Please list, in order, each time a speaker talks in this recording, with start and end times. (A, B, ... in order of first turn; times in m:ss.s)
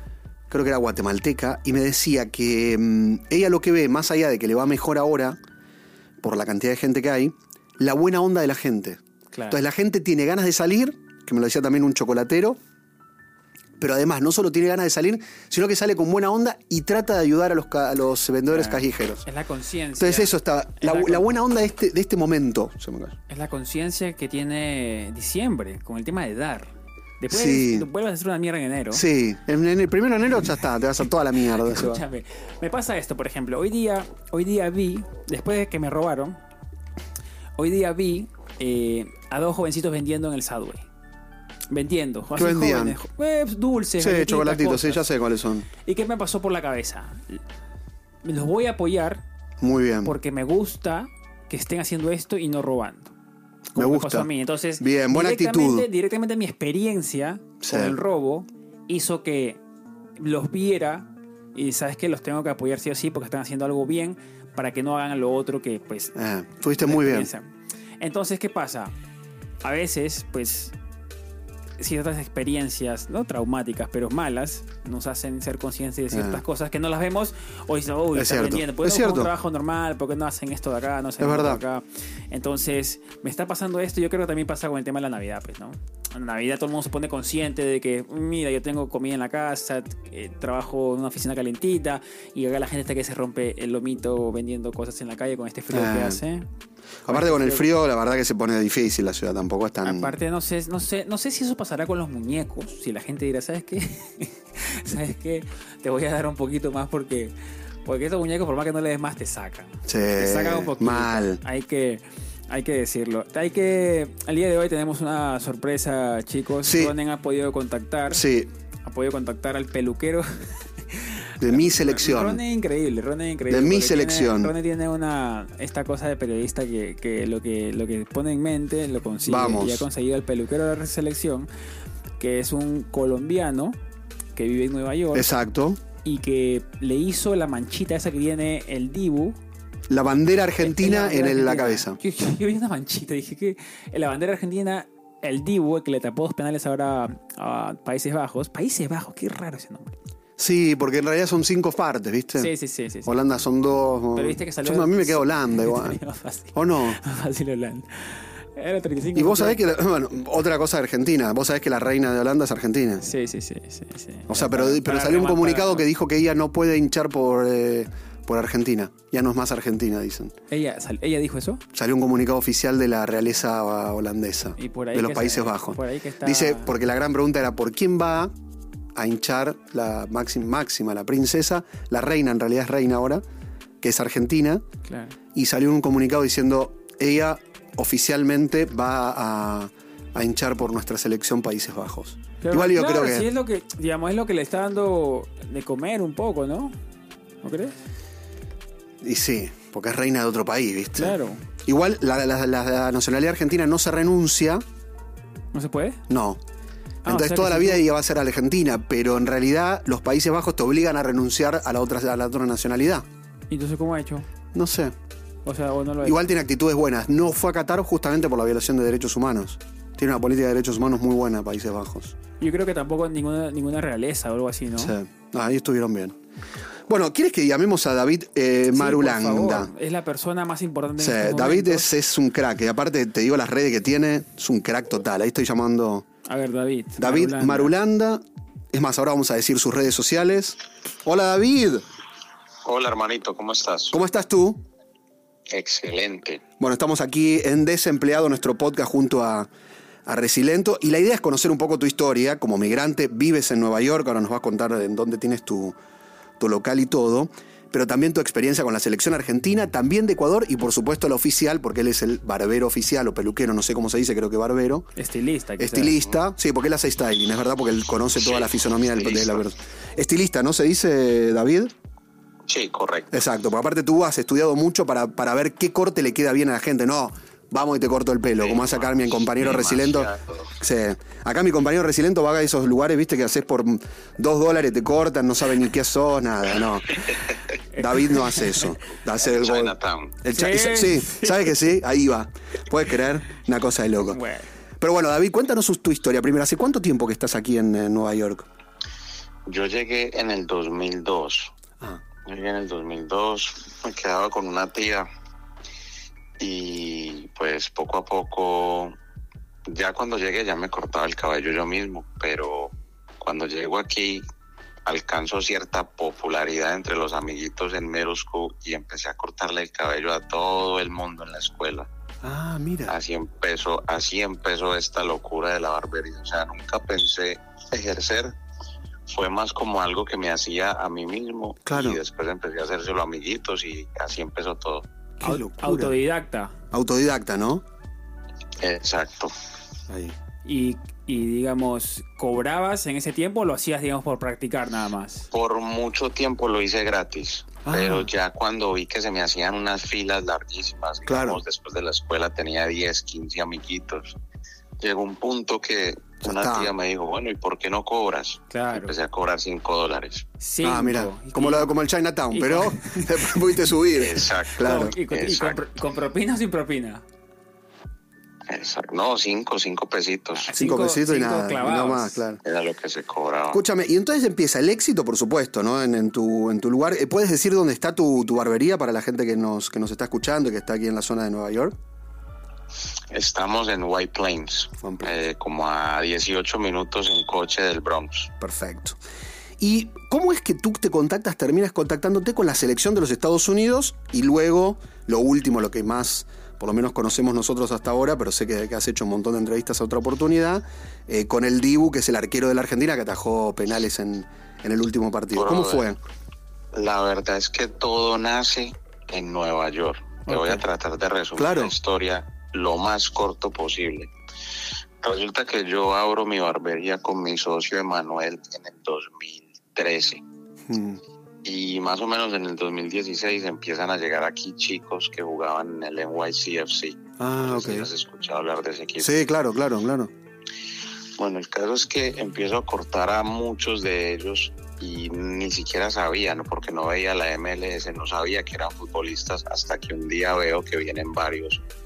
0:00.5-0:05.4 A
0:06.2-0:12.6 A
0:09.3-0:09.6 B
0:13.8-0:19.2 A
0:18.5-0:21.3 B
0:20.0-0:23.2 A
0:23.3-0:29.0 B
0:27.3-0:27.9 A
0:28.9-0:32.0 A
0:31.5-0:36.4 B
0:37.6-0:40.8 B
0:41.7-0:45.0 B
0:42.4-0:43.0 A
0:44.0-0:45.7 A
0:45.8-0:47.4 B
0:48.2-0:49.2 B
0:49.6-0:50.2 A
0:50.0-0:53.1 B
0:53.7-0:55.9 A
0:53.7-0:59.6 B
0:57.6-0:58.0 A
1:00.2-1:06.1 B
1:06.1-1:07.3 A
1:06.8-1:08.9 B
1:09.6-1:10.7 B
1:11.8-1:36.5 B
1:16.1-1:16.4 A
1:18.1-1:19.3 A
1:21.2-1:21.6 A
1:35.7-1:36.2 A
1:37.0-1:40.1 A
1:37.1-1:37.7 B
1:39.8-1:47.3 B
1:47.8-1:58.2 B
1:49.8-1:51.4 A
1:56.6-1:56.9 A
1:58.1-1:58.5 A
1:58.8-2:11.5 B
2:01.4-2:02.4 A
2:03.5-2:04.5 A
2:09.2-2:09.9 A
2:12.2-2:13.8 B
2:14.3-2:15.3 B
2:15.1-2:15.8 A
2:16.0-2:19.4 B
2:19.9-2:22.0 A
2:20.6-2:29.9 B
2:30.4-2:32.5 A
2:32.4-2:33.1 B
2:33.0-2:36.0 A
2:34.1-2:39.7 B
2:36.5-2:37.0 A
2:39.1-2:43.0 A
2:43.0-2:45.8 B
2:44.3-2:50.3 A
2:50.5-2:51.6 B
2:51.7-2:58.3 A
2:54.6-2:56.7 B
2:58.9-3:03.2 A
3:03.8-3:04.6 A
3:04.8-3:05.1 B
3:05.3-3:13.3 A
3:12.4-3:16.8 B
3:17.4-3:17.7 B
3:19.0-3:24.6 A
3:21.0-3:21.4 B
3:25.5-3:26.0 B
3:26.1-3:26.4 A
3:27.0-3:27.8 B
3:27.0-3:33.0 A
3:33.5-3:34.2 B
3:34.5-3:34.9 A
3:35.4-3:36.2 B
3:36.0-3:42.1 A
3:42.4-3:44.9 B
3:44.8-3:46.2 A
3:46.9-3:49.7 A
3:48.7-3:51.9 B
3:51.0-3:56.0 A
3:56.2-3:57.7 B
3:57.0-4:01.8 A
4:02.6-4:04.0 C
4:03.9-4:04.6 A
4:05.5-4:06.4 C
4:06.6-4:09.5 A
4:10.0-4:15.8 A
4:16.4-4:24.9 A
4:25.0-4:26.0 B
4:25.6-4:31.7 A
4:28.2-4:29.4 C
4:32.5-4:33.1 C
4:33.1-4:47.2 A
4:38.4-4:40.5 C
4:47.7-4:48.8 B
4:47.8-4:54.2 A
4:49.2-4:50.2 C
4:50.3-4:51.6 B
4:54.1-4:54.5 B
4:54.8-4:58.5 A
4:59.4-5:01.5 C
5:02.2-5:05.1 C
5:06.4-5:09.0 C
5:09.6-5:14.2 C
5:14.8-5:21.9 C
5:22.2-5:23.0 A
5:22.9-5:28.3 C
5:29.1-5:34.9 C
5:31.6-5:32.0 A
5:35.2-5:35.9 A
5:35.2-5:36.6 B
5:36.7-5:37.6 A
5:38.6-5:39.3 C
5:39.9-5:40.1 A
5:40.4-5:45.3 B
5:45.3-5:54.2 C
5:47.6-5:48.1 A
5:51.1-5:51.4 A
5:54.8-6:00.2 C
5:56.2-5:56.7 A
5:58.5-5:58.9 B
6:00.4-6:01.7 B
6:00.6-6:04.9 A
6:02.3-6:03.7 B
6:03.9-6:05.6 C
6:04.6-6:07.0 B
6:08.5-6:10.5 C
6:10.4-6:12.2 B
6:10.5-6:12.4 A
6:12.4-6:13.6 C
6:13.5-6:21.7 A
6:23.1-6:28.3 C
6:24.8-6:25.1 A
6:28.4-6:29.0 A
6:29.6-6:46.0 A
6:45.3-6:45.9 C
6:46.7-6:54.1 C
6:50.2-6:50.6 B
6:51.4-6:51.7 A
6:55.0-7:00.2 C
7:00.7-7:01.0 A
7:01.4-7:09.2 C
7:07.2-7:07.9 A
7:09.0-7:10.1 A
7:11.2-7:21.6 C